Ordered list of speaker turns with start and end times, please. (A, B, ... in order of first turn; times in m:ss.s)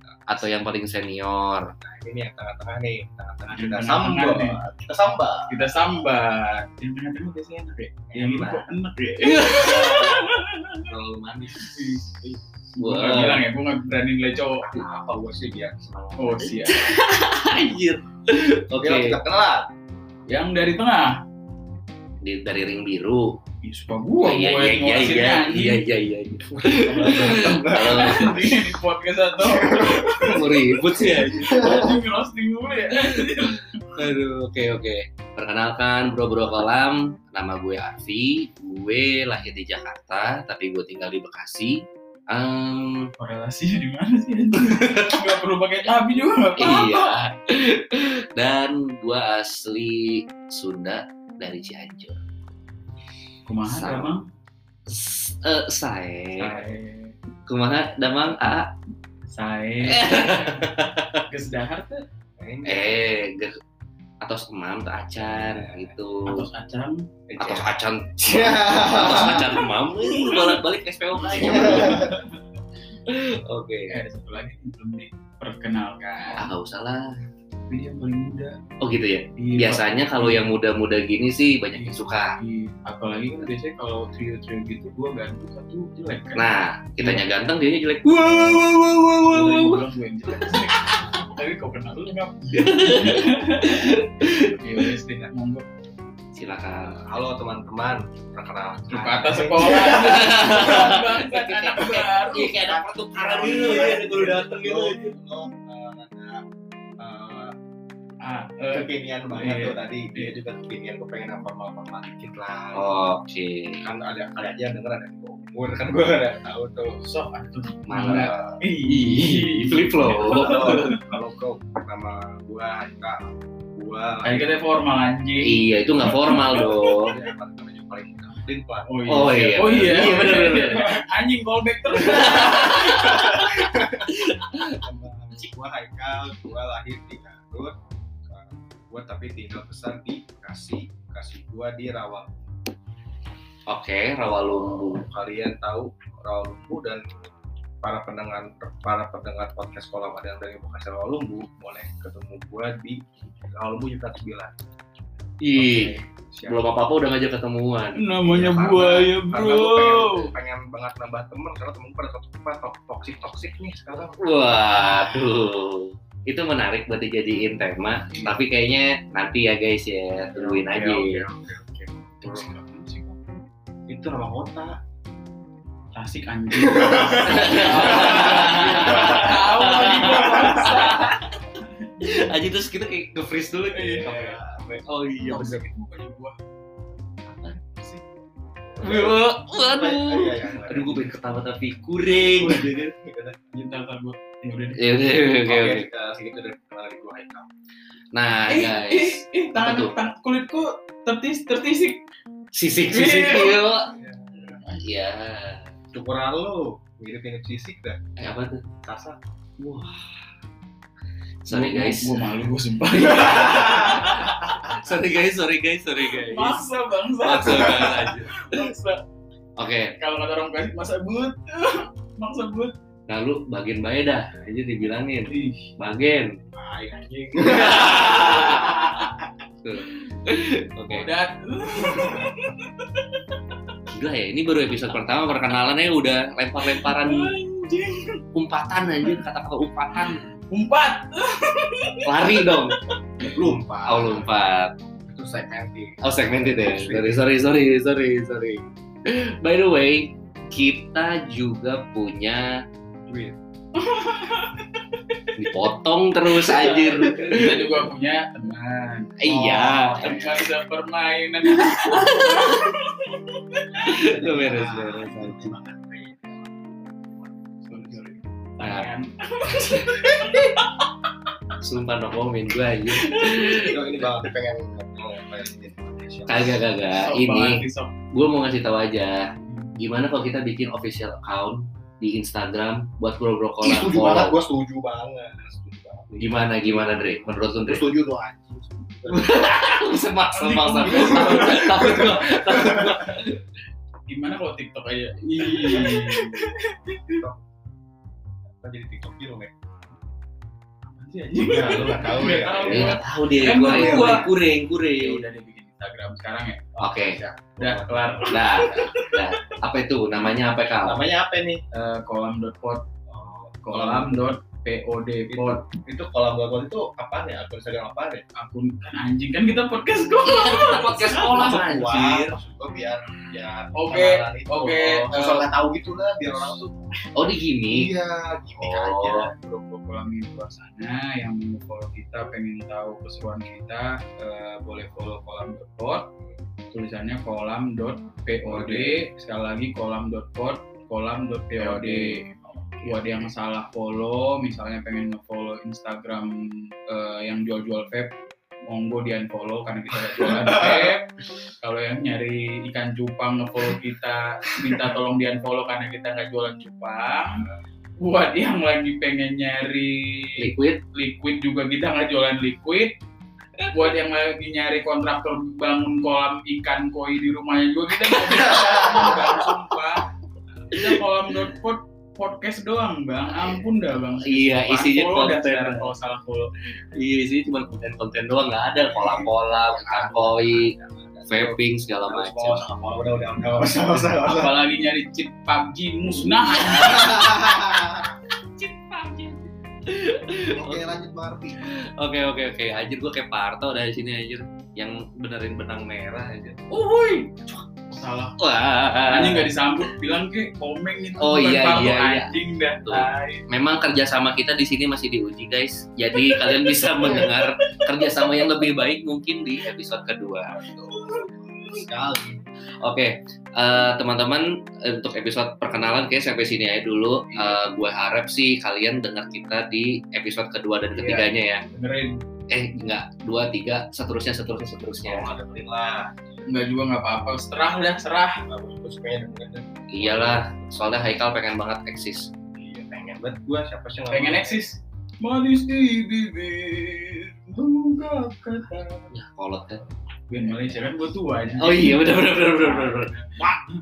0:00.3-0:01.7 A
0:01.8-0:05.7 B
0:03.5-0:04.6 C
0:05.5-0:10.8 C
0:08.1-0:08.7 B
0:09.2-0:10.3 A
0:09.5-0:10.0 B
0:10.9-0:11.6 A
0:10.9-0:11.7 B
0:11.6-0:14.7 C
0:12.8-0:13.4 A
0:14.6-0:16.4 B
0:16.1-0:19.2 A
0:16.2-0:16.8 C
0:18.8-0:19.7 B
0:20.3-0:21.2 C
0:22.2-0:23.4 A
0:23.6-0:25.8 C
0:24.2-0:28.4 A
0:26.8-0:28.6 B
0:26.9-0:33.8 C
0:29.4-0:30.4 B
0:30.2-0:31.9 A
0:31.0-0:32.0 B
0:32.9-0:43.1 A
0:43.2-0:47.1 C
0:44.7-0:45.2 A
0:46.6-0:52.2 A
0:53.5-0:54.2 C
0:53.6-0:54.1 A
0:54.9-0:56.7 A
0:56.4-0:57.1 C
0:57.5-0:58.7 A
0:59.3-1:00.5 C
0:59.9-1:01.2 A
1:01.3-1:02.0 C
1:02.4-1:03.0 B
1:02.6-1:03.5 A
1:04.2-1:06.4 A
1:05.2-1:06.0 B
1:06.3-1:07.1 C
1:07.3-1:09.7 B
1:07.4-1:12.1 A
1:09.1-1:10.6 C
1:11.3-1:12.4 C
1:11.3-1:12.2 B
1:13.1-1:13.9 A
1:13.9-1:16.5 C
1:16.3-1:17.1 A
1:17.7-1:18.6 C
1:18.8-1:22.4 A
1:19.4-1:20.5 C
1:21.8-1:27.3 C
1:26.3-1:29.8 A
1:28.1-1:28.7 C
1:29.3-1:33.9 C
1:32.6-1:34.5 A
1:34.5-1:35.6 C
1:36.4-1:37.0 A
1:36.8-1:41.0 B
1:38.9-1:42.6 C
1:39.6-1:45.2 A
1:42.3-1:46.4 B
1:47.0-1:47.5 B
1:48.2-1:50.4 C
1:48.7-1:53.0 B
1:52.7-1:53.8 A
1:53.8-1:57.0 B
1:57.0-2:01.0 C
1:57.9-2:00.9 A
2:00.2-2:03.2 B
2:03.8-2:04.6 B
2:04.2-2:06.6 C
2:05.4-2:07.1 A
2:06.2-2:09.4 B
2:08.9-2:13.4 C
2:09.1-2:10.9 A
2:10.6-2:11.0 B
2:12.1-2:13.1 A
2:12.1-2:14.1 B
2:14.3-2:14.8 A
2:14.8-2:22.5 B
2:23.7-2:25.1 A
2:24.9-2:27.2 B
2:27.8-2:34.5 B
2:35.4-2:38.0 A
2:35.6-2:36.7 B
2:38.0-2:40.3 C
2:38.2-2:44.2 B
2:44.2-2:51.2 A
2:50.3-2:52.6 B
2:52.2-2:53.2 C
2:53.9-2:54.8 B
2:55.9-3:01.2 C
2:56.6-2:59.3 B
2:57.2-3:01.3 A
3:00.0-3:00.7 B
3:02.0-3:04.2 A
3:03.7-3:04.4 C
3:04.0-3:04.9 B
3:04.8-3:05.6 A
3:05.2-3:06.4 C
3:07.3-3:07.6 A
3:08.8-3:11.2 B
3:08.8-3:12.9 A
3:12.1-3:13.6 B
3:13.5-3:14.8 C
3:14.8-3:15.9 A
3:15.5-3:17.5 B
3:18.1-3:20.0 A
3:18.5-3:22.0 C
3:22.5-3:23.9 A
3:22.9-3:23.6 C
3:24.0-3:24.6 B
3:24.5-3:24.9 C
3:24.8-3:25.7 A
3:25.9-3:28.0 B
3:28.2-3:28.6 A
3:28.8-3:29.2 B
3:29.6-3:30.1 A
3:31.4-3:32.5 A
3:31.5-3:34.5 C
3:33.0-3:36.6 A
3:33.4-3:34.5 B
3:36.1-3:39.0 C
3:37.2-3:38.6 A
3:39.6-3:39.9 A
3:40.0-3:42.7 C
3:43.1-3:46.4 A
3:45.3-3:45.7 C
3:46.6-3:49.0 B
3:47.4-3:48.7 A
3:47.9-3:49.0 C
3:49.6-3:51.1 A
3:50.9-3:53.2 C
3:51.8-3:52.3 B
3:53.9-3:57.3 A
3:56.6-3:58.2 C
3:58.3-4:00.2 A
3:59.9-4:02.4 C
4:02.0-4:02.8 A
4:03.2-4:04.3 B
4:03.9-4:04.7 A
4:05.0-4:07.2 B
4:06.0-4:12.5 A
4:13.1-4:13.4 B
4:13.8-4:15.2 C
4:15.4-4:17.9 A
4:16.4-4:19.1 C
4:19.2-4:20.5 A
4:19.2-4:20.4 B
4:20.0-4:24.0 C
4:21.6-4:22.7 A
4:23.8-4:25.6 A
4:24.0-4:27.4 B
4:27.7-4:30.8 C
4:28.6-4:28.9 A
4:31.6-4:33.8 A
4:33.0-4:33.7 C
4:33.7-4:36.6 B
4:36.3-4:44.4 A
4:36.9-4:37.9 C
4:39.5-4:39.7 C
4:43.6-4:47.1 B
4:46.2-4:47.9 A
4:47.6-4:49.6 B
4:49.1-4:53.4 A
4:50.3-4:51.9 C
4:50.8-4:53.0 B
4:54.1-4:57.2 C
4:58.6-4:59.5 B
5:00.9-5:04.3 C
5:01.4-5:04.3 B
5:02.6-5:05.2 A
5:05.0-5:06.7 C
5:06.8-5:07.2 A
5:06.8-5:08.1 B
5:07.6-5:09.4 C
5:08.3-5:11.0 A
5:10.8-5:11.6 B
5:11.7-5:12.8 C
5:13.1-5:14.3 B
5:13.6-5:15.7 C
5:15.3-5:18.2 B
5:18.4-5:22.1 C
5:20.2-5:22.4 A
5:21.2-5:26.8 B
5:23.8-5:25.5 C
5:26.3-5:26.6 C
5:27.2-5:27.9 A
5:27.7-5:29.2 B
5:28.6-5:29.3 A
5:29.0-5:36.1 C
5:36.7-5:42.2 C
5:38.5-5:39.0 B
5:41.6-5:43.3 B
5:42.8-5:57.4 C
5:50.2-5:50.9 B
5:58.0-6:02.9 C
6:00.4-6:00.8 A
6:03.6-6:03.9 A
6:03.7-6:10.1 C
6:08.3-6:09.3 A
6:10.7-6:16.5 C
6:14.2-6:15.9 A
6:17.0-6:20.7 A
6:18.9-6:24.6 B
6:21.3-6:22.6 A
6:24.2-6:27.4 C
6:26.4-6:27.1 A
6:26.6-6:28.1 B
6:28.6-6:29.4 C
6:29.9-6:30.9 A
6:30.5-6:31.6 B
6:31.6-6:36.6 A
6:36.7-6:37.4 C
6:37.9-6:38.4 C
6:38.4-6:39.5 A
6:39.1-6:43.4 C
6:41.2-6:50.5 A
6:46.2-6:47.3 C
6:50.6-6:52.4 B
6:50.9-6:51.8 C
6:52.8-7:01.6 A
7:00.9-7:02.2 C
7:02.5-7:05.3 A
7:05.0-7:06.4 B
7:06.5-7:08.4 C
7:08.5-7:10.7 B
7:09.9-7:12.3 A
7:12.6-7:14.6 B
7:14.1-7:19.1 C
7:19.1-7:19.8 A
7:20.3-7:23.7 C
7:21.6-7:23.1 A